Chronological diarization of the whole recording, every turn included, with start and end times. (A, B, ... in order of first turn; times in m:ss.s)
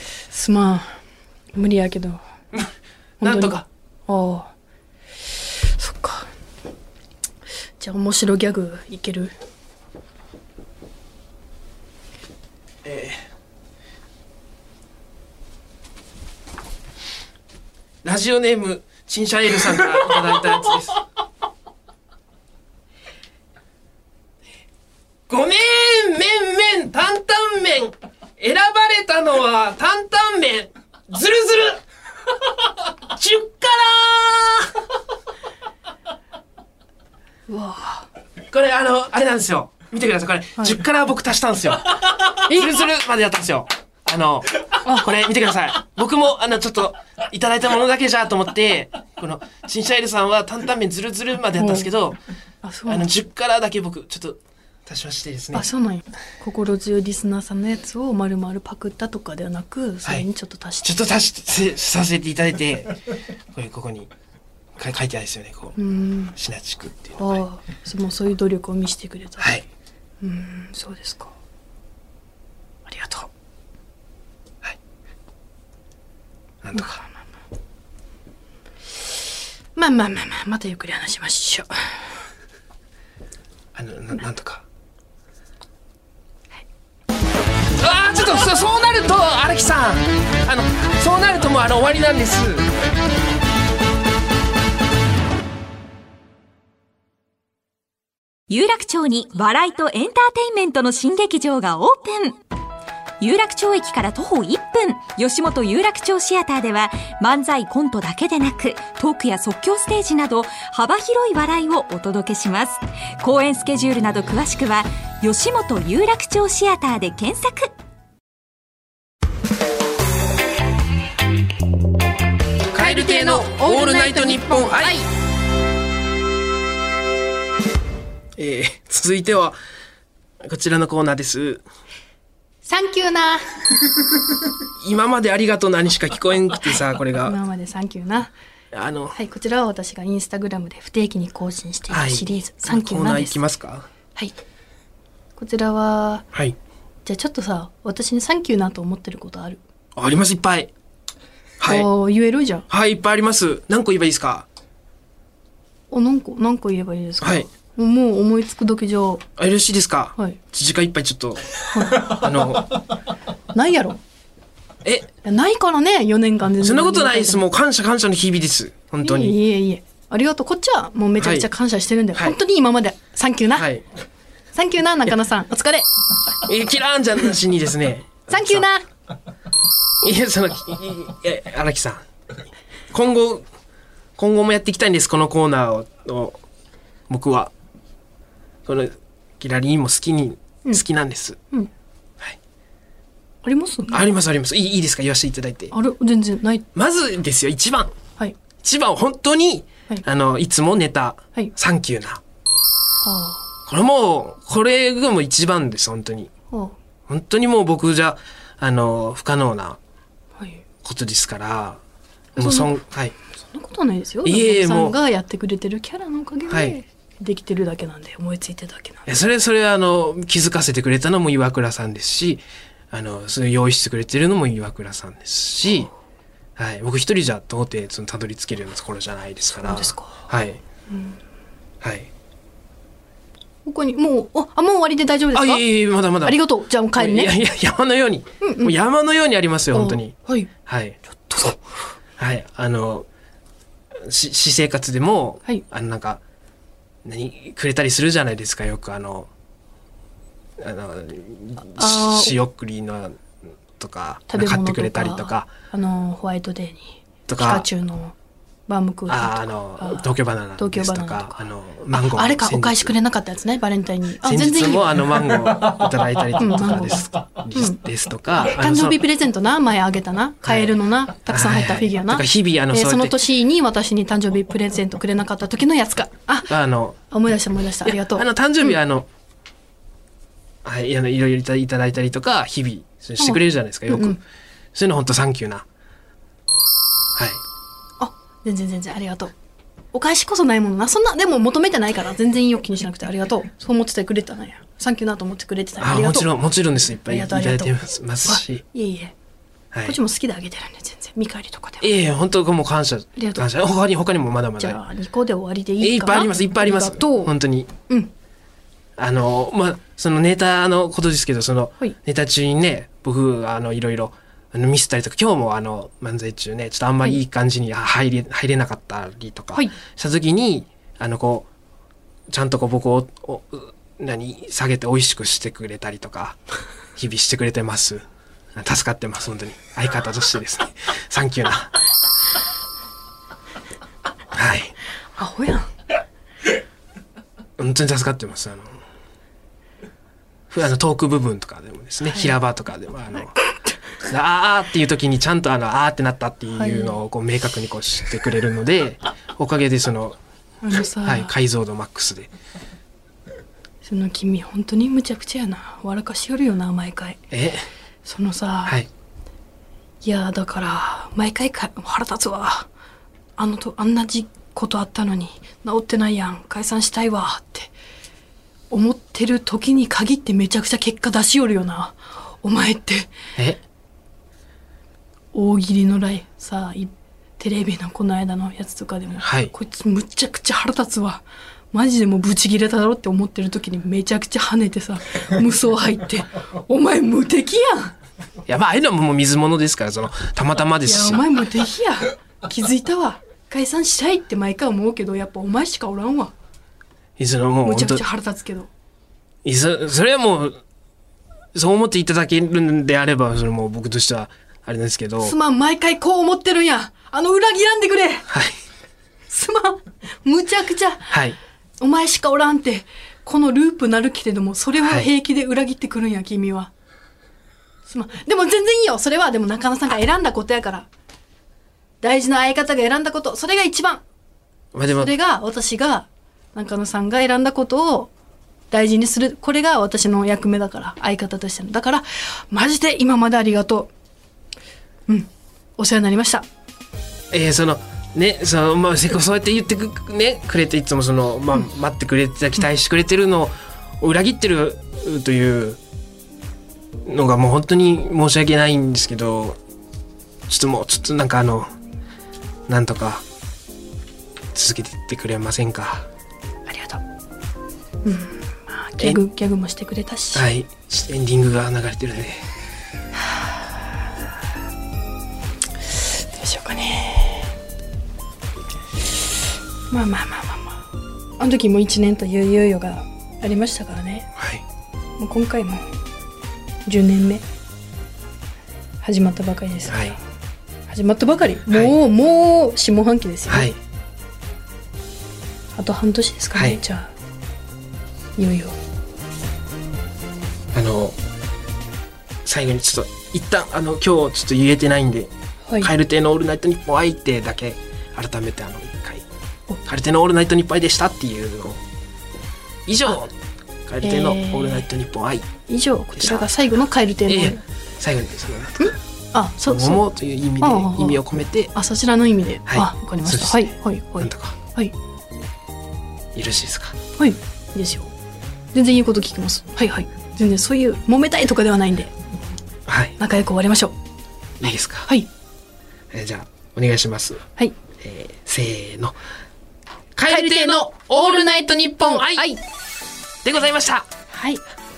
0:00.3-0:01.0 A
0:01.5-0:02.2 A
0:03.2-0:03.5 A
0:03.2-0:03.7 B
0:04.1-0:04.5 A
0:05.3-0:06.3 A
0:07.8-0:09.3 A
0:12.8-0:13.2 B
0:18.0-0:21.0 B
0:25.3-0:31.8 B
0:33.1-0:34.8 B
0:37.5-0:38.1 A
0:38.5-0:52.2 B
0:40.6-0:40.8 A
0:42.5-0:42.8 A
0:44.8-0:45.1 A
0:51.6-0:51.9 A
0:52.6-0:53.1 A
0:52.9-0:55.7 B
0:55.5-1:00.9 A
1:00.8-1:03.0 B
1:03.5-1:04.1 B
1:04.8-1:05.8 B
1:05.8-1:06.3 A
1:06.3-1:07.4 B
1:07.2-1:09.5 A
1:09.4-1:09.6 B
1:10.2-1:11.3 A
1:12.8-1:13.3 A
1:16.6-1:17.0 B
1:16.7-1:17.3 A
1:19.7-1:22.1 A
1:23.8-1:24.6 B
1:27.8-1:32.6 B
1:38.5-1:42.4 C
1:43.2-1:57.7 C
2:02.7-2:05.0 B
2:02.7-2:05.1 A
2:08.4-2:09.6 B
2:10.4-2:11.6 B
2:12.6-2:13.4 A
2:14.8-2:17.4 B
2:17.2-2:18.3 A
2:18.7-2:19.2 B
2:19.1-2:23.4 A
2:21.9-2:23.9 B
2:25.4-2:26.3 A
2:27.0-2:29.6 A
2:30.0-2:30.7 B
2:31.6-2:31.9 B
2:31.6-2:32.6 A
2:32.7-2:34.5 B
2:35.9-2:39.2 A
2:37.2-2:37.5 B
2:39.4-2:42.8 B
2:41.7-2:42.2 A
2:43.5-2:44.0 A
2:44.8-2:45.1 B
2:45.2-2:47.4 A
2:46.6-2:49.4 B
2:49.0-2:53.7 A
2:51.2-2:51.5 B
2:53.6-2:53.8 B
2:54.5-2:55.9 A
2:56.4-2:58.6 B
2:58.3-2:58.9 A
3:00.0-3:02.0 B
3:02.9-3:03.4 B
3:04.2-3:06.4 B
3:07.1-3:07.5 B
3:08.6-3:11.4 B
3:13.4-3:14.0 A
3:13.9-3:15.7 B
3:15.7-3:16.7 A
3:16.7-3:17.9 B
3:18.6-3:22.2 B
3:23.0-3:23.4 A
3:23.7-3:26.3 B
3:26.5-3:26.8 A
3:27.1-3:29.8 B
3:30.4-3:30.6 A
3:30.8-3:31.8 B
3:32.4-3:33.2 B
3:32.4-3:32.7 A
3:33.4-3:39.2 A
3:34.2-3:35.0 B
3:36.5-3:36.8 B
3:39.0-3:45.9 B
3:46.6-3:50.6 B
3:49.6-3:50.2 A
3:50.9-3:51.2 A
3:51.8-3:52.1 B
3:53.6-3:55.6 A
3:55.3-3:56.4 B
3:56.2-3:57.3 A
3:57.0-4:01.0 B
3:58.4-3:58.7 A
3:59.7-4:00.5 A
4:01.2-4:01.6 A
4:02.2-4:03.0 B
4:04.0-4:06.2 B
4:07.0-4:09.3 B
4:10.6-4:13.2 B
4:11.7-4:12.4 A
4:13.8-4:15.5 B
4:14.3-4:18.2 A
4:17.3-4:17.7 B
4:18.7-4:25.1 A
4:19.1-4:22.9 B
4:24.2-4:29.0 B
4:26.4-4:27.8 A
4:28.3-4:36.5 A
4:30.4-4:30.8 B
4:31.3-4:33.2 B
4:36.5-4:37.0 B
4:37.1-4:38.8 A
4:37.8-4:39.1 B
4:40.6-4:44.2 B
4:43.2-4:44.2 A
4:44.7-4:45.6 B
4:47.2-4:47.4 B
4:48.0-4:49.3 A
4:49.9-4:56.3 A
4:55.8-4:58.6 B
4:57.0-4:59.1 A
4:59.7-5:00.0 B
4:59.8-5:01.9 A
5:01.8-5:04.8 B
5:03.2-5:03.4 A
5:04.6-5:07.3 A
5:05.8-5:07.7 B
5:09.0-5:21.5 B
5:22.3-5:26.4 B
5:27.0-5:28.0 B
5:28.6-5:31.7 B
5:34.3-5:34.7 B
5:35.2-5:35.7 A
5:37.6-5:38.8 B
5:40.5-5:43.4 B
5:42.0-5:42.4 A
5:43.1-5:43.8 A
5:44.0-5:50.2 B
5:46.6-5:47.0 A
5:50.6-5:51.3 A
5:50.7-5:52.3 B
5:53.8-5:57.3 A
5:57.3-5:57.7 B
5:58.0-5:58.8 A
6:00.0-6:02.7 A
6:03.4-6:07.7 A
6:08.7-6:13.1 A
6:15.3-6:27.9 A
6:19.2-6:19.5 B
6:28.5-6:31.3 B
6:30.8-6:36.3 A
6:37.2-6:38.0 B
6:37.6-6:38.7 A
6:39.4-6:40.6 B
6:41.5-6:45.3 B
6:45.2-6:48.3 A
6:48.3-6:48.6 B
6:49.3-6:51.2 A
6:51.1-6:51.4 B
6:51.8-6:56.7 A
6:54.8-6:55.1 B
6:57.9-7:00.9 A
7:02.0-7:04.0 A
7:04.7-7:05.1 B
7:04.9-7:08.1 A
7:08.7-7:13.9 A
7:15.1-7:16.5 A
7:17.3-7:25.8 B
7:27.0-7:29.6 B
7:30.5-7:31.7 B
7:32.7-7:33.2 B
7:34.5-7:36.1 B
7:36.7-7:37.0 A
7:38.0-7:40.4 A
7:40.3-7:42.4 B
7:43.1-7:44.0 A
7:45.8-7:47.5 A
7:49.9-7:54.3 A
7:54.4-7:54.6 B
7:55.2-7:55.9 A
7:56.8-7:57.4 A
7:59.0-8:00.2 A
7:59.9-8:00.2 B
8:00.9-8:03.7 A
8:03.5-8:03.8 B
8:05.7-8:07.1 A
8:06.5-8:06.8 B
8:08.4-8:08.8 A
8:10.7-8:11.2 B
8:12.4-8:19.2 B
8:19.8-8:21.8 B
8:22.9-8:23.3 B
8:23.9-8:25.5 B
8:24.0-8:24.9 A
8:25.7-8:27.6 A
8:26.2-8:26.5 B
8:27.3-8:28.9 B
8:28.8-8:30.0 A
8:29.6-8:31.7 B
8:30.6-8:31.2 A
8:31.7-8:34.9 A
8:32.7-8:34.6 B
8:36.3-8:37.0 B
8:37.2-8:38.1 A
8:38.7-8:42.1 A
8:42.9-8:43.2 B
8:43.2-8:44.0 A
8:44.6-8:45.1 B
8:44.6-8:45.3 A
8:46.1-8:47.4 B
8:48.0-8:49.2 B
8:50.2-8:52.5 B
8:50.3-8:52.6 A
8:53.4-8:54.1 B
8:54.3-8:54.6 A